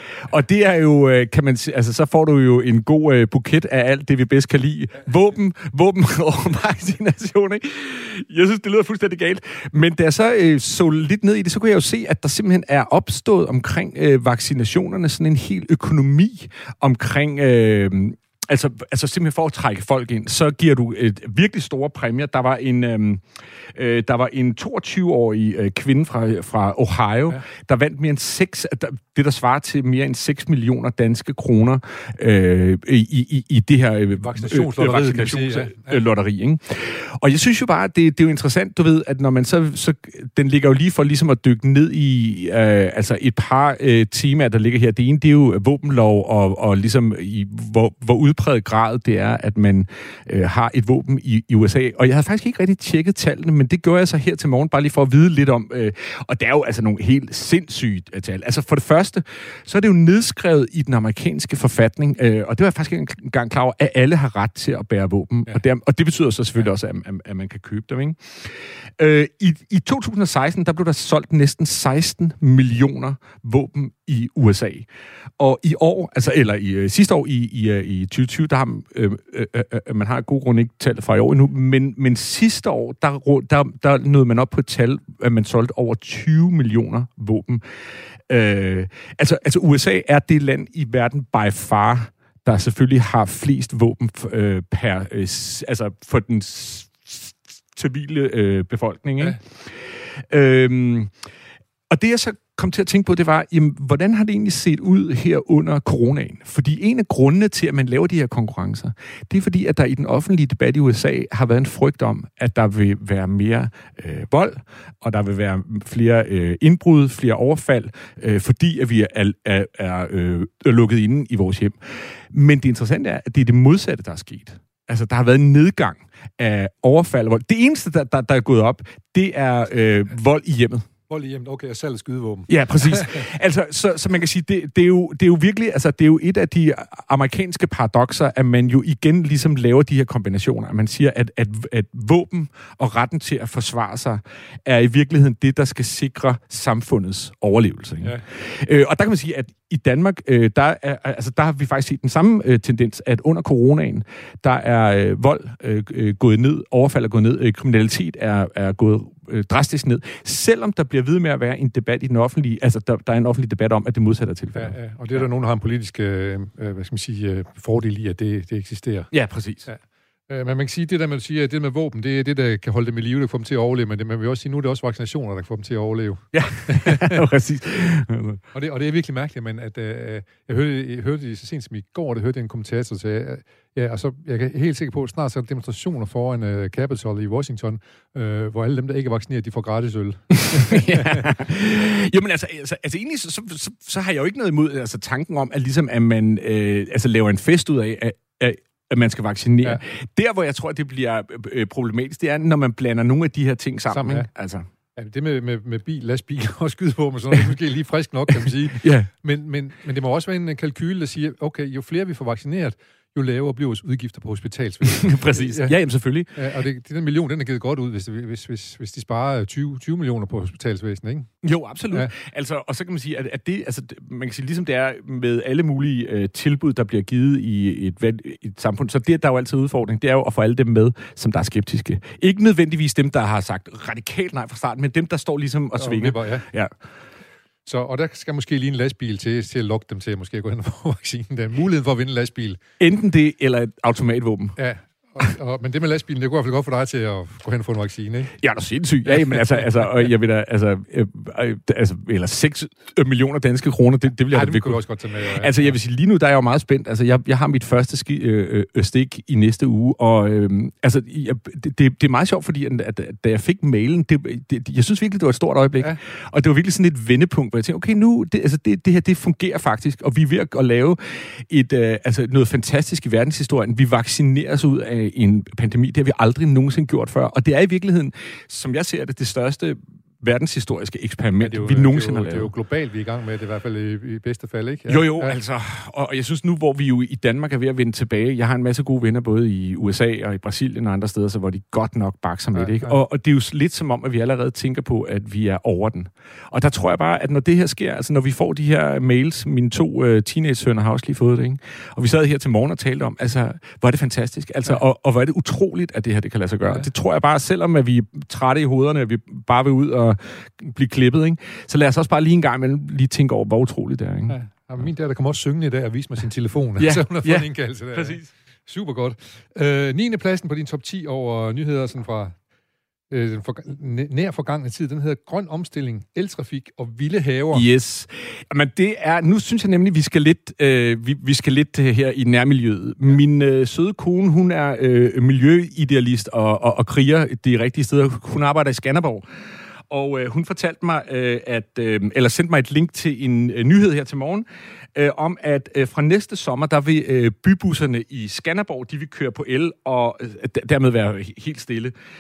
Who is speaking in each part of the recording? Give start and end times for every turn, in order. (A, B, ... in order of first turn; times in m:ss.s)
0:00.2-1:41.1 A
0:34.2-0:36.0 B
1:41.9-2:10.9 A
2:11.1-2:13.2 B
2:12.5-2:45.2 A
2:44.5-2:49.1 B
2:49.1-2:49.7 A
2:49.7-2:57.2 B
2:56.3-2:58.4 A
2:58.5-3:11.3 B
3:10.3-3:24.7 A
3:23.9-3:24.3 B
3:25.0-3:35.7 B
3:28.8-3:29.1 A
3:34.9-3:36.4 A
3:36.3-3:41.3 B
3:41.4-3:56.7 A
3:55.8-3:56.5 B
3:57.7-4:02.6 B
4:02.8-4:04.6 A
4:04.6-4:08.4 B
4:08.4-4:42.5 A
4:14.3-4:15.7 B
4:41.4-4:45.4 B
4:44.9-5:14.4 A
4:52.6-4:53.0 B
5:14.3-5:22.4 B
5:16.8-5:18.3 A
5:23.1-5:27.7 B
5:27.5-5:52.0 A